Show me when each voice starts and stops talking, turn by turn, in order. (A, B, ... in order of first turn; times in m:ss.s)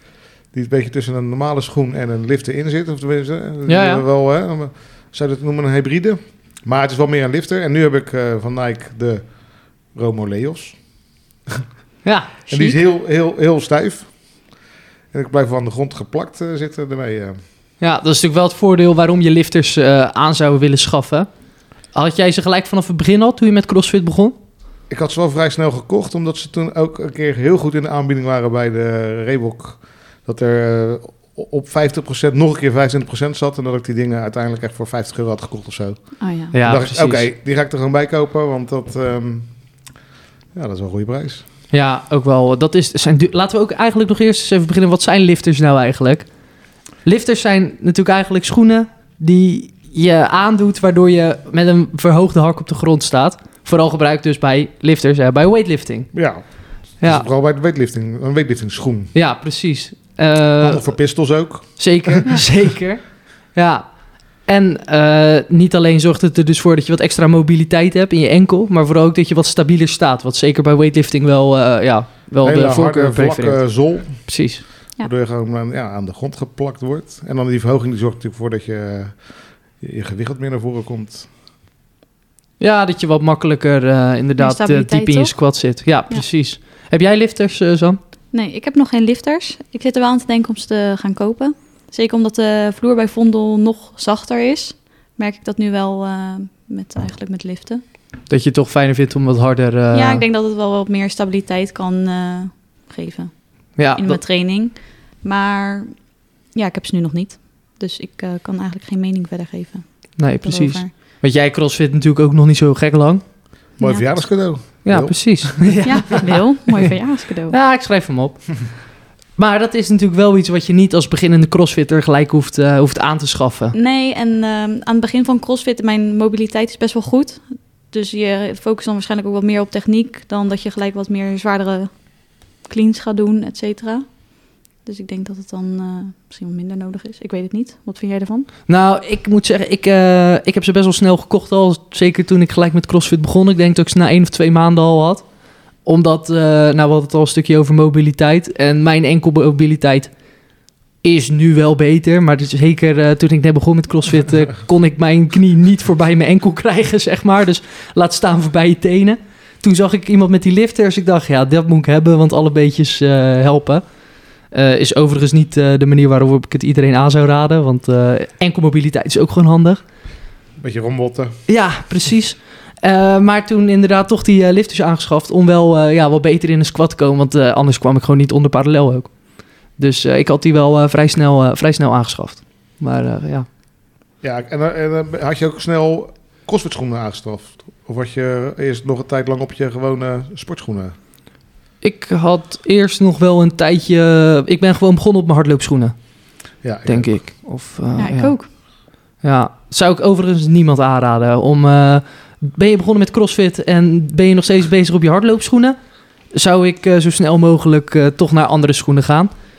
0:00.5-0:09.3 A
0:03.7-0:04.0 B
0:09.9-0:10.8 A
0:12.0-0:12.3 B
0:12.5-0:12.8 C
0:12.5-0:14.1 A
0:15.1-0:17.4 A
0:17.8-0:21.3 B
0:21.9-0:24.4 B
0:24.9-0:39.5 A
0:36.2-0:36.5 C
0:36.5-0:37.3 B
0:40.6-0:41.4 A
0:41.7-0:46.3 B
0:47.0-0:56.1 B
0:56.1-0:56.4 A
0:57.0-0:59.1 A
0:57.0-0:57.3 B
0:59.1-1:00.9 B
1:00.6-1:02.4 A
1:01.8-1:03.0 B
1:03.5-1:03.8 B
1:04.4-1:14.6 B
1:12.4-1:14.4 A
1:15.0-1:19.2 A
1:19.8-1:21.3 A
1:22.6-1:28.0 B
1:24.4-1:25.4 C
1:28.3-1:37.8 C
1:38.3-1:40.2 B
1:39.9-1:50.9 C
1:43.8-1:44.2 B
1:50.2-1:53.2 B
1:53.8-1:54.1 C
1:53.8-1:55.9 A
1:54.8-1:56.9 B
1:55.8-1:57.6 C
1:57.5-1:58.8 B
1:59.4-2:03.7 B
2:03.7-2:12.0 C
2:12.6-2:14.3 C
2:14.8-2:18.5 C
2:18.7-2:25.2 B
2:25.8-2:30.1 B
2:31.0-2:43.8 B
2:44.5-2:49.8 B
2:50.6-2:51.4 A
2:51.5-2:59.1 B
2:59.8-3:03.5 B
3:04.2-3:10.9 A
3:11.8-3:16.0 B
3:16.6-3:17.1 A
3:16.9-3:18.4 B
3:18.0-3:18.5 C
3:19.2-3:25.8 B
3:26.3-3:29.3 B